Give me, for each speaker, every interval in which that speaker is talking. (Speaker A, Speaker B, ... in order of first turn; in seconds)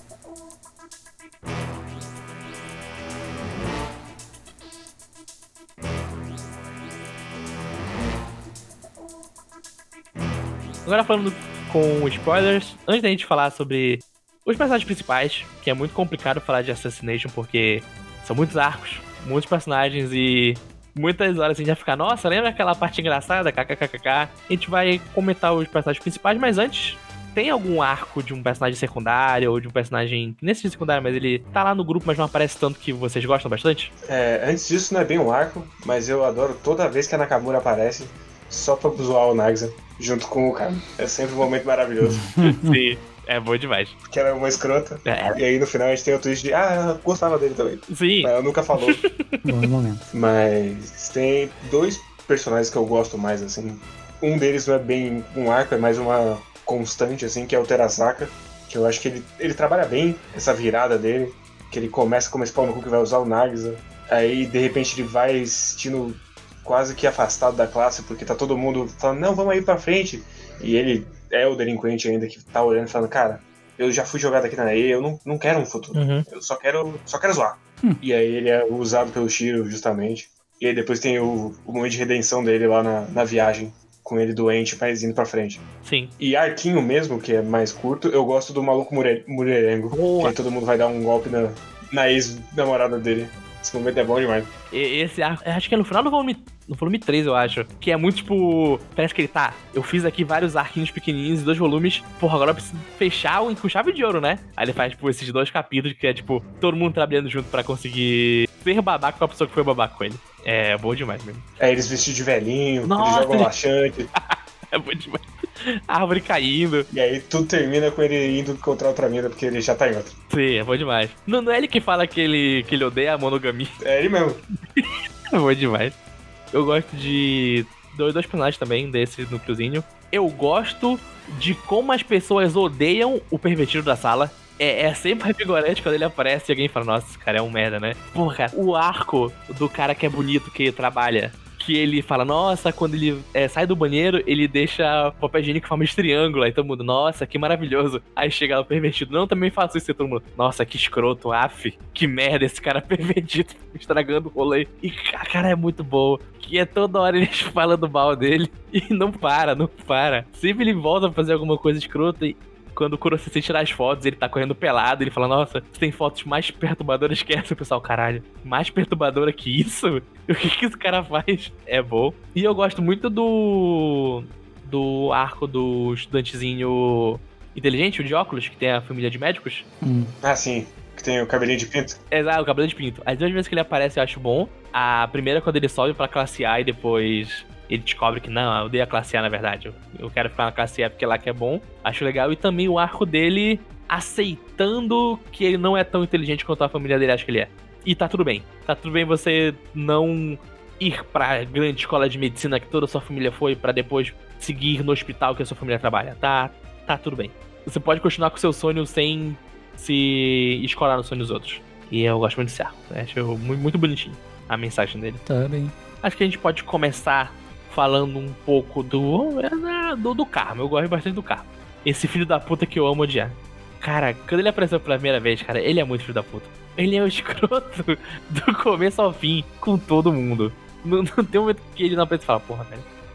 Speaker A: 10.9-33.9, 42.5-44.0, 45.0-45.4, 47.9-49.5, 75.9-76.3, 85.8-86.1, 89.9-90.3, 94.7-111.5, 112.8-113.5, 114.2-116.9, 120.3-123.7, 124.8-126.0, 126.5-179.7, 182.1-215.2, 216.0-232.8
Speaker B: 34.1-42.3, 44.1-49.0, 50.1-85.7, 86.2-94.5, 111.6-114.1, 116.9-120.2, 123.8-124.4, 180.2-182.0
Speaker C: 42.0-42.8, 49.5-50.1, 179.8-180.1, 215.3-215.8